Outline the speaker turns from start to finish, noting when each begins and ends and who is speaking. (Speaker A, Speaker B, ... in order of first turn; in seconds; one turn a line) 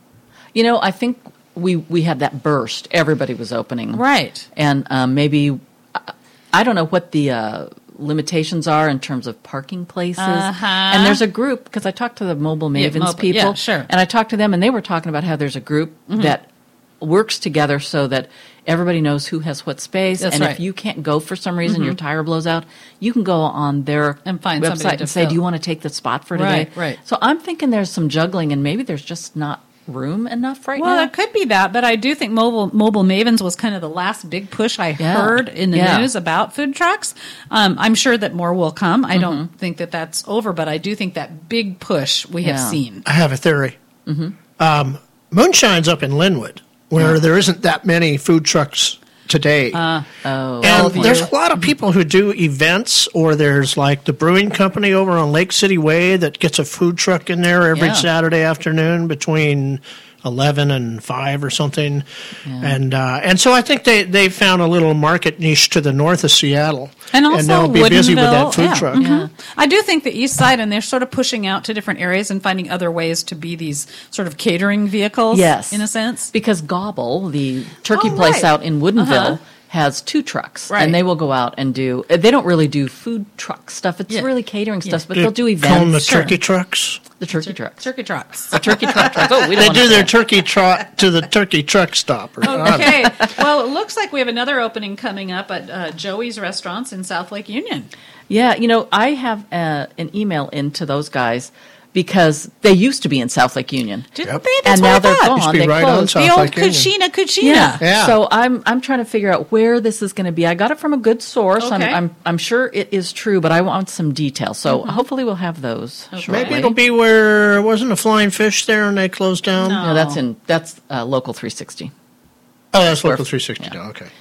Speaker A: 0.5-4.0
Speaker B: 3.9-4.5
Speaker A: 4.5-16.5
Speaker B: 10.2-11.2
Speaker B: 12.7-13.9
Speaker B: 16.1-16.3
Speaker A: 17.0-31.1
Speaker B: 20.2-20.6
Speaker B: 21.6-22.0
Speaker B: 24.2-25.4
Speaker B: 26.3-27.0
Speaker B: 30.8-43.0
Speaker A: 35.0-36.1
Speaker A: 39.1-39.4
Speaker A: 42.4-42.8
Speaker C: 43.0-43.8
Speaker A: 44.0-44.3
Speaker C: 44.6-49.8
Speaker B: 49.7-50.1
Speaker A: 50.2-51.3
Speaker B: 50.6-51.3
Speaker C: 50.6-62.0
Speaker A: 57.7-58.1
Speaker A: 62.5-62.8
Speaker C: 62.6-69.0
Speaker B: 67.1-76.3
Speaker A: 68.9-69.3
Speaker A: 75.3-86.3
Speaker B: 77.9-79.4
Speaker B: 80.7-81.0
Speaker C: 85.1-87.0
Speaker B: 86.0-86.3
Speaker A: 87.2-87.8
Speaker B: 87.3-89.6
Speaker A: 88.5-90.1
Speaker C: 89.5-93.1
Speaker B: 92.4-97.9
Speaker A: 98.3-104.1
Speaker B: 104.1-105.5
Speaker A: 104.6-106.2
Speaker C: 105.3-106.9
Speaker B: 106.1-107.8
Speaker A: 107.4-116.7
Speaker C: 107.8-108.2
Speaker B: 111.6-112.0
Speaker B: 114.7-115.0
Speaker B: 116.1-116.6
Speaker C: 116.3-119.8
Speaker B: 119.6-120.2
Speaker A: 119.8-121.9
Speaker C: 122.7-124.1
Speaker A: 123.0-123.7